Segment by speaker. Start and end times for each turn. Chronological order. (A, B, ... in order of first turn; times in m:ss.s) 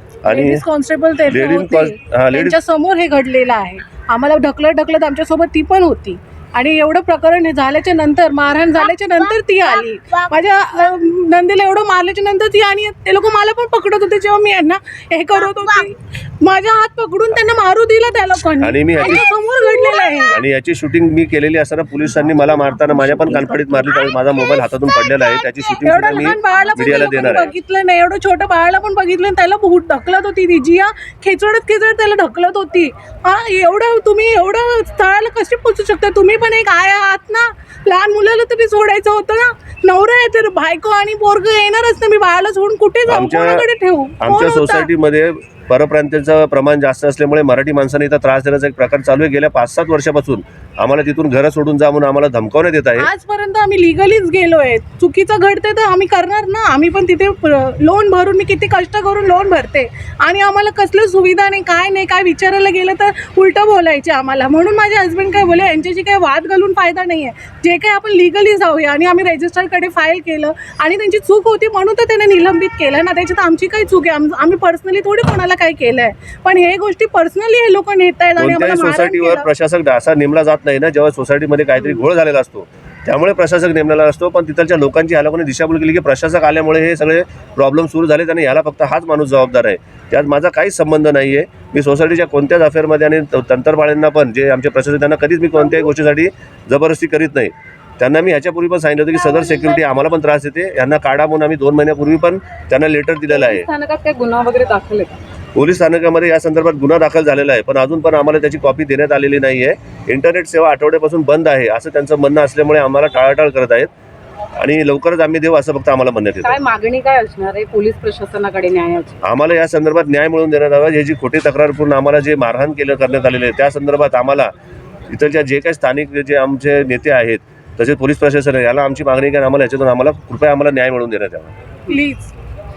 0:00.2-0:00.6 A
0:00.3-0:20.4 B
0:01.3-0:02.6 A
0:18.6-0:19.3 A
0:20.3-0:27.5 A
0:22.8-0:24.0 B
0:25.1-0:44.9 B
0:43.1-0:43.7 A
0:44.2-0:53.1 A
0:53.0-1:19.5 B
1:18.4-1:43.7 A
1:43.3-1:45.2 C
1:45.6-1:53.9 A
1:54.6-1:56.6 A
1:56.4-1:59.2 C
1:59.2-2:04.5 A
2:05.1-2:11.5 A
2:11.9-2:12.3 B